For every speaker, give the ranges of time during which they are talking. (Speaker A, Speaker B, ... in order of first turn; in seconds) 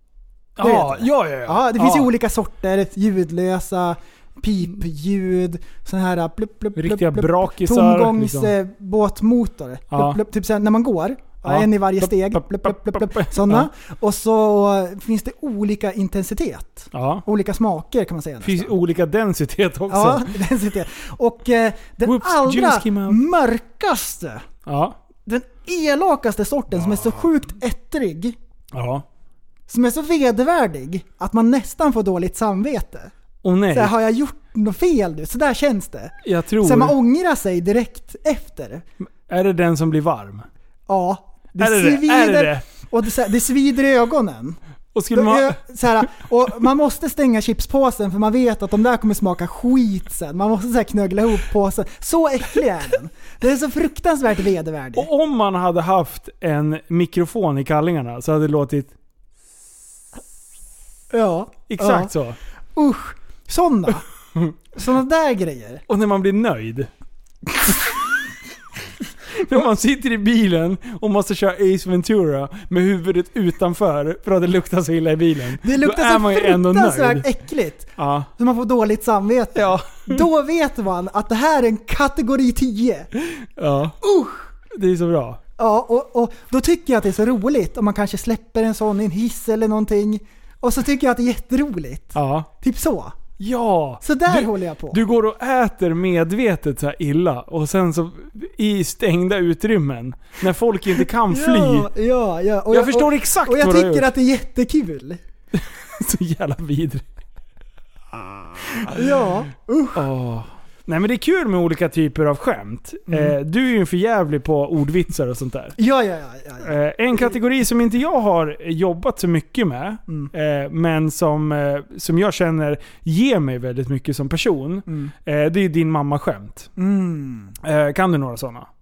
Speaker A: 0.6-2.1, 6.7-8.5, 9.9-10.2, 11.4-13.7, 16.9-17.2, 18.4-20.3, 22.0-23.2, 24.6-25.0, 28.7-29.0, 33.4-33.9, 36.2-37.0, 39.3-40.5, 41.6-42.6, 44.9-45.6, 54.9-58.9, 61.7-62.4, 65.9-66.9, 67.7-67.9, 69.3-77.3, 78.0-78.3, 79.5-80.2, 83.3-84.0, 84.7-85.4, 92.1-92.5, 93.4-101.9, 102.7-104.1, 105.5-107.0, 108.5-109.1, 109.9-115.8, 116.6-126.7, 127.6-128.7
Speaker B: 0.6-18.7, 19.9-24.4, 25.2-28.4, 29.7-33.1, 33.7-38.8, 40.9-44.6, 45.1-55.1, 61.1-62.1, 62.8-64.0, 64.7-65.8, 75.6-83.1, 84.0-84.5, 85.6-93.2, 94.0-95.0, 101.3-105.2, 108.9-110.0, 113.1-113.3, 115.8-116.7, 124.9-125.1, 126.8-127.5